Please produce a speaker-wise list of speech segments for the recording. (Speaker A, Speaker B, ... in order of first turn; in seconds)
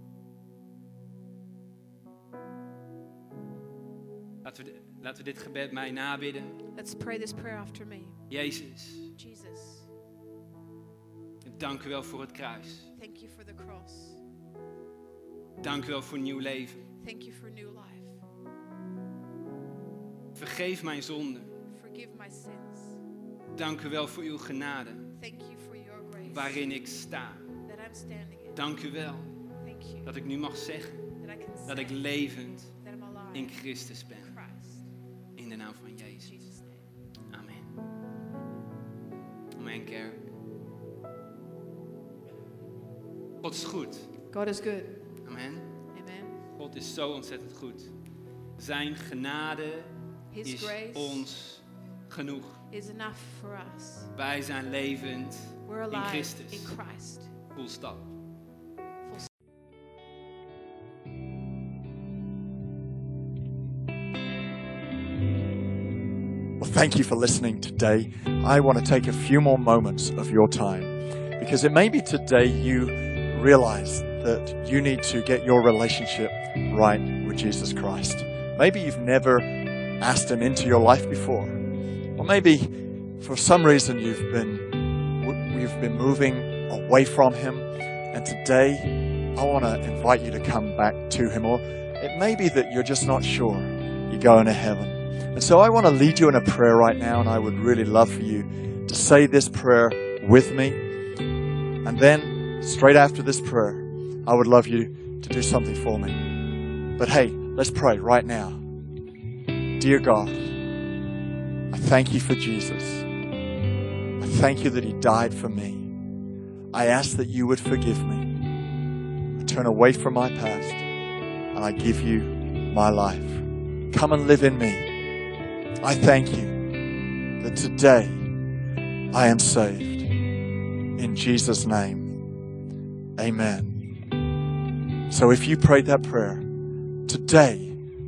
Speaker A: 4.4-6.6, 8.3-9.1, 11.4-12.9, 15.6-16.9, 20.4-21.5, 23.6-25.1, 26.3-27.5, 28.6-29.3, 30.1-31.1, 31.7-32.7, 33.3-34.3, 35.4-36.3, 37.3-37.8, 39.6-40.2, 43.4-44.1, 45.3-45.7, 46.6-47.9, 48.6-49.9, 50.5-52.6, 54.1-56.7, 57.5-58.1
Speaker B: 6.8-8.2, 9.2-9.9, 13.0-14.2, 17.0-18.2, 21.7-23.0, 25.2-26.6, 27.6-28.6, 29.6-30.1, 31.2-32.0, 32.8-33.6, 34.2-34.9, 36.2-36.9, 44.3-45.0, 45.9-46.4, 50.3-51.3, 52.7-54.1, 55.7-57.3
Speaker C: 66.6-79.5, 80.0-81.6, 82.2-100.8, 101.8-106.2, 107.0-108.6, 109.8-110.5, 111.7-113.1, 114.2-115.9, 116.7-118.3, 119.4-120.8, 121.5-124.9, 125.8-126.7, 127.4-128.3, 129.1-130.1, 130.9-132.1, 133.2-133.8, 135.1-136.5, 137.1-137.8